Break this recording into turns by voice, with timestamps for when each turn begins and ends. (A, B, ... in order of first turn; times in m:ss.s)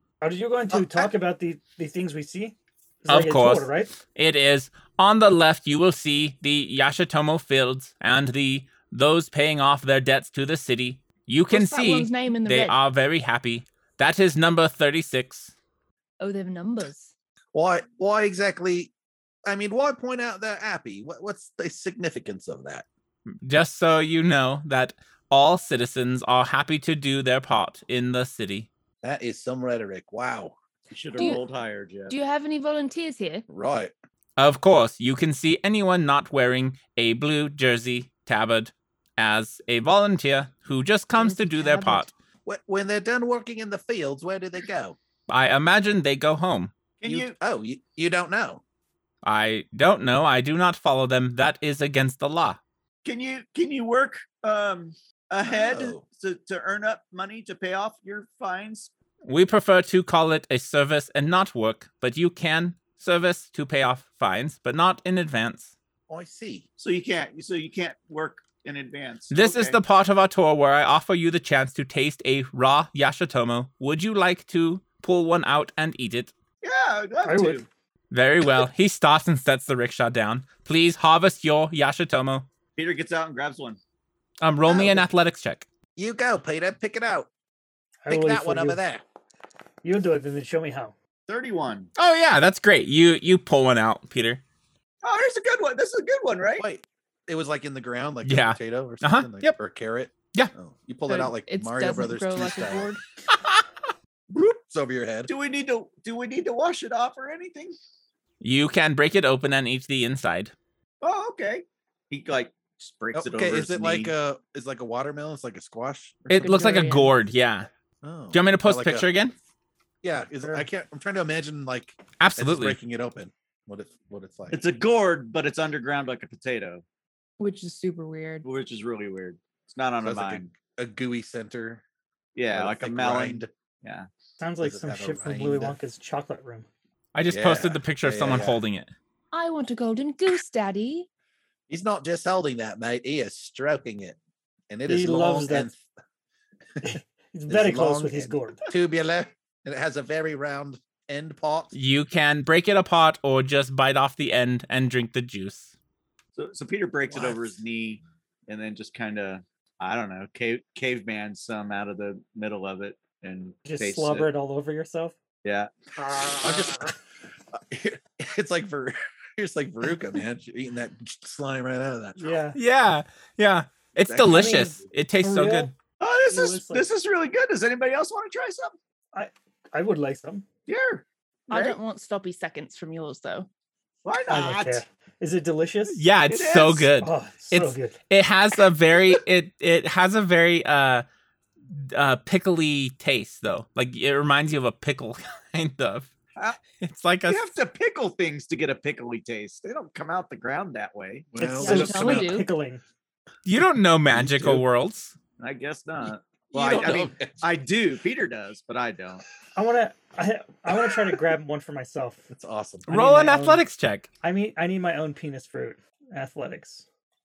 0:00.2-0:03.9 A
0:00.7-0:01.1 B
0:03.1-0:15.5 C
0:11.5-0:12.8 D
0:16.2-0:17.1 D
0:17.5-0:18.9 B
0:19.4-0:22.8 B
0:23.3-0:28.7 C
0:29.0-0:30.5 B
0:30.9-0:32.1 E
0:31.2-0:31.4 D
0:32.1-0:33.4 D
0:33.5-0:33.9 B
0:34.4-0:42.1 C
0:41.2-0:42.1 D
0:42.4-0:45.0 B
0:45.3-0:46.7 C
0:47.0-0:47.3 E
0:47.0-0:48.6 B
0:49.2-0:52.6 C
0:53.0-0:58.9 E
0:55.4-0:56.0 B
0:59.2-1:05.7 C
1:06.1-1:06.6 B
1:06.8-1:09.8 E
1:09.3-1:16.3 C
1:16.6-1:17.6 E
1:17.2-1:17.6 A
1:18.1-1:22.4 C
1:22.8-1:23.8 E
1:24.4-1:25.6 C
1:24.6-1:25.1 B
1:26.0-1:27.3 B
1:28.0-1:28.8 A
1:28.1-1:29.0 B
1:29.8-1:30.9 A
1:31.3-1:31.9 E
1:32.0-1:34.4 C
1:35.0-1:36.6 E
1:36.6-1:42.9 B
1:38.2-1:39.5 C
1:41.1-1:43.0 D
1:44.4-1:45.3 B
1:45.3-1:47.8 E
1:48.4-1:50.5 C
1:51.0-1:54.1 E
1:53.1-1:56.3 B
1:56.3-1:57.7 C
1:56.3-1:57.1 D
1:58.0-1:59.1 B
1:58.3-1:59.3 C
2:00.0-2:04.6 B
2:00.4-2:00.7 A
2:02.2-2:02.8 C
2:04.5-2:06.8 E
2:07.4-2:08.5 D
2:08.4-2:10.5 E
2:10.0-2:11.8 B
2:12.3-2:14.1 E
2:12.5-2:13.5 B
2:14.4-2:16.7 A
2:14.6-2:15.8 B
2:17.1-2:18.9 C
2:17.3-2:18.6 B
2:19.3-2:21.1 D
2:21.7-2:24.2 B
2:24.7-2:25.8 B
2:24.8-2:25.7 A
2:26.8-2:28.6 A
2:27.5-2:31.7 B
2:31.7-2:35.7 C
2:36.3-2:44.3 E
2:37.1-2:37.6 B
2:43.6-2:45.2 A
2:45.4-2:45.7 E
2:46.0-2:46.6 A
2:46.4-2:46.9 B
2:47.5-2:52.4 B
2:52.2-2:52.6 A
2:52.5-2:55.7 C
2:54.1-2:54.6 B
2:54.2-2:55.7 A
2:56.0-2:58.7 E
2:56.2-2:56.9 A
2:59.1-3:00.4 A
3:00.7-3:01.8 E
3:01.5-3:03.5 D
3:04.0-3:04.8 E
3:04.3-3:06.0 A
3:05.9-3:11.0 C
3:06.3-3:06.9 E
3:07.0-3:08.0 A
3:11.7-3:16.1 C
3:16.4-3:16.6 E
3:16.8-3:17.5 C
3:17.3-3:21.3 E
3:21.3-3:22.4 B
3:21.4-3:22.8 A
3:21.5-3:22.5 D
3:23.4-3:25.2 C
3:24.1-3:24.6 B
3:25.4-3:29.2 E
3:26.5-3:27.4 B
3:29.6-3:32.3 A
3:32.3-3:32.9 B
3:32.8-3:33.6 A
3:32.9-3:34.1 C
3:34.2-3:36.8 A